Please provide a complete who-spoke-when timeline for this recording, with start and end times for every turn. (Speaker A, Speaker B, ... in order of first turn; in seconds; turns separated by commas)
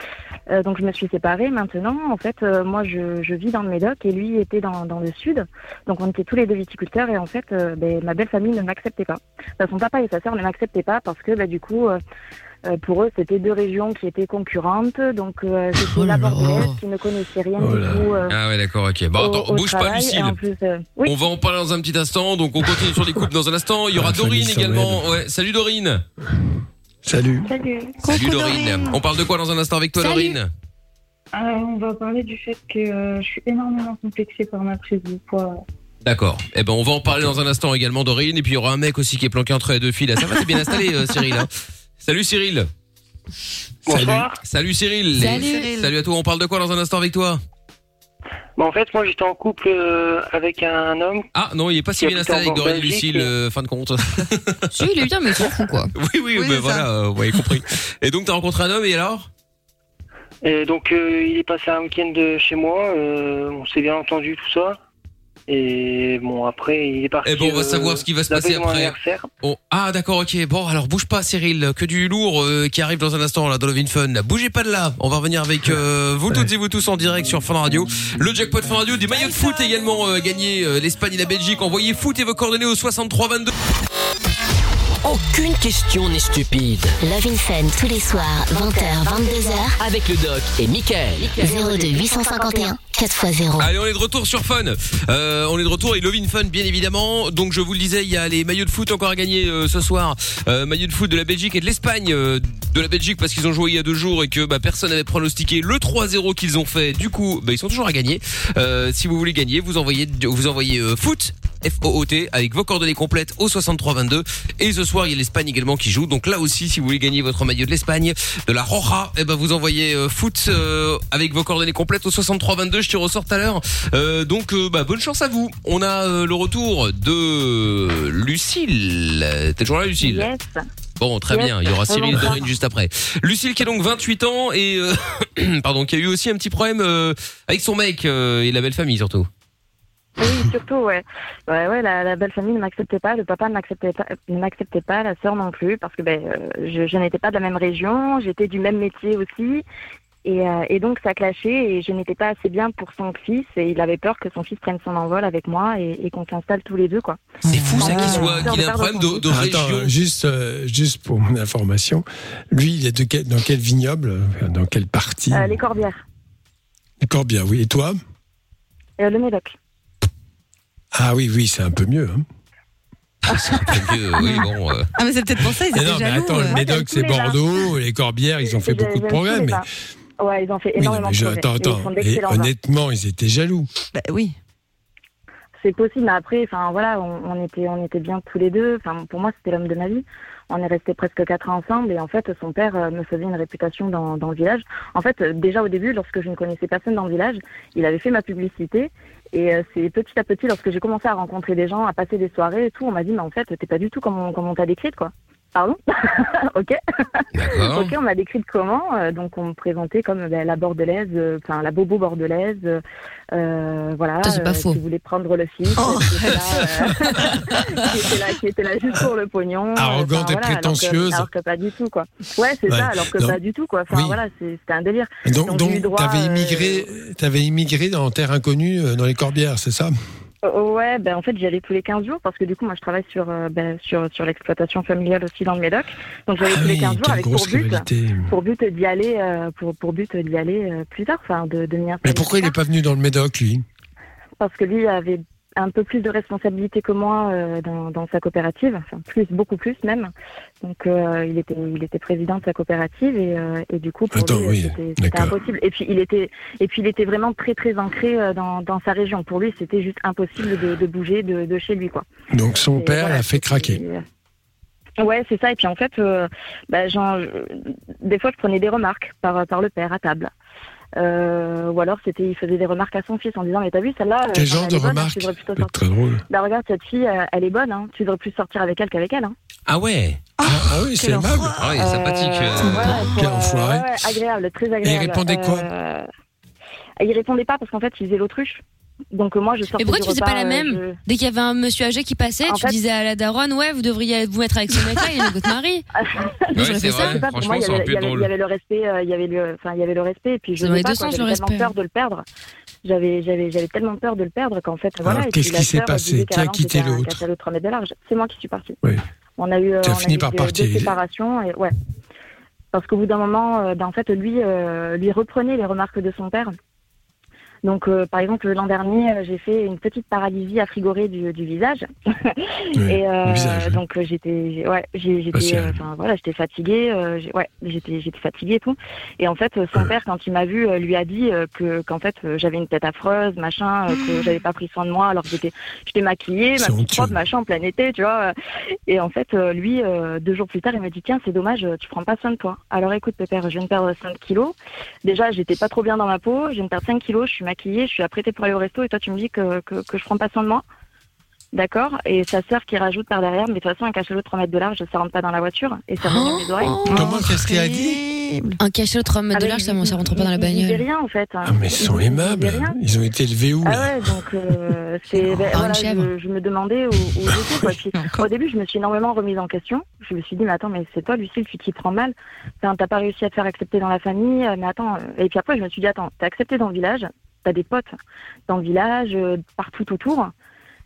Speaker A: 0.5-12.0, Speaker A: 12.6-18.3, Speaker B: 15.8-16.8, Speaker C: 17.6-18.1, Speaker D: 18.3-20.4, Speaker A: 19.2-21.2, Speaker D: 21.1-26.0, Speaker C: 23.9-25.1, Speaker C: 27.0-27.5, Speaker E: 27.4-28.0, Speaker F: 28.0-29.0, Speaker D: 28.0-30.5, Speaker B: 29.9-30.4, Speaker E: 31.3-35.6, Speaker D: 36.0-42.7, Speaker G: 43.9-44.4, Speaker C: 43.9-44.2, Speaker D: 44.4-47.4, Speaker B: 45.1-45.7, Speaker F: 45.2-45.9, Speaker G: 48.6-51.2, Speaker D: 51.3-54.7, Speaker G: 52.0-53.3, Speaker B: 54.7-55.9, Speaker D: 55.9-59.3, Speaker F: 56.3-56.9, Speaker G: 60.4-64.8, Speaker G: 65.5-69.3, Speaker D: 67.2-83.5, Speaker H: 85.0-86.9, Speaker I: 87.0-89.8, Speaker H: 89.8-91.4, Speaker I: 91.4-93.7, Speaker D: 93.6-130.3, Speaker A: 130.0-130.6, Speaker D: 131.0-139.3, Speaker A: 131.3-132.4, Speaker A: 140.2-149.6, Speaker A: 150.2-157.2, Speaker F: 157.4-158.5, Speaker D: 157.5-159.9, Speaker A: 157.7-159.3, Speaker C: 159.3-165.6, Speaker A: 165.3-166.0, Speaker C: 167.0-168.0, Speaker A: 169.0-169.6, Speaker C: 170.9-172.2, Speaker D: 173.3-174.9, Speaker F: 174.9-176.6, Speaker C: 175.7-179.7, Speaker A: 176.4-177.4, Speaker A: 178.6-179.7, Speaker A: 180.2-182.5, Speaker C: 180.8-183.7, Speaker F: 183.9-184.3, Speaker A: 185.6-226.9, Speaker D: 207.3-207.9, Speaker B: 214.2-214.8, Speaker F: 215.8-217.2, Speaker C: 219.8-221.3, Speaker C: 222.7-223.4, Speaker C: 223.9-224.2, Speaker C: 225.2-229.9, Speaker A: 230.4-242.6, Speaker C: 236.4-238.3, Speaker C: 242.0-243.6, Speaker A: 244.4-262.0, Speaker C: 254.1-255.3, Speaker C: 262.3-263.8, Speaker A: 262.7-264.0, Speaker A: 265.0-270.3, Speaker A: 270.9-275.7, Speaker C: 274.3-276.2, Speaker A: 276.3-279.3, Speaker D: 279.7-280.2, Speaker F: 280.4-281.9, Speaker C: 280.4-281.6, Speaker D: 281.6-283.1, Speaker A: 281.8-286.1, Speaker C: 282.6-283.9, Speaker C: 284.8-285.7, Speaker A: 287.0-288.6, Speaker A: 289.1-291.0, Speaker B: 289.8-295.8, Speaker A: 292.4-292.8, Speaker A: 296.1-302.2, Speaker B: 296.5-297.2, Speaker D: 296.5-298.3, Speaker B: 300.6-301.7, Speaker A: 302.8-308.8, Speaker C: 305.0-307.2, Speaker A: 309.4-311.7, Speaker C: 309.8-311.0, Speaker A: 312.7-316.5, Speaker A: 317.6-338.3, Speaker C: 322.7-323.8, Speaker C: 325.3-325.8, Speaker C: 336.6-337.1, Speaker A: 338.9-350.6, Speaker A: 351.5-356.8, Speaker B: 356.0-357.2, Speaker F: 356.8-358.6, Speaker C: 356.9-358.0, Speaker B: 358.6-360.8, Speaker A: 359.3-362.8, Speaker C: 361.4-364.1, Speaker A: 363.6-377.9, Speaker B: 365.3-366.1, Speaker F: 367.9-368.3, Speaker A: 378.5-380.3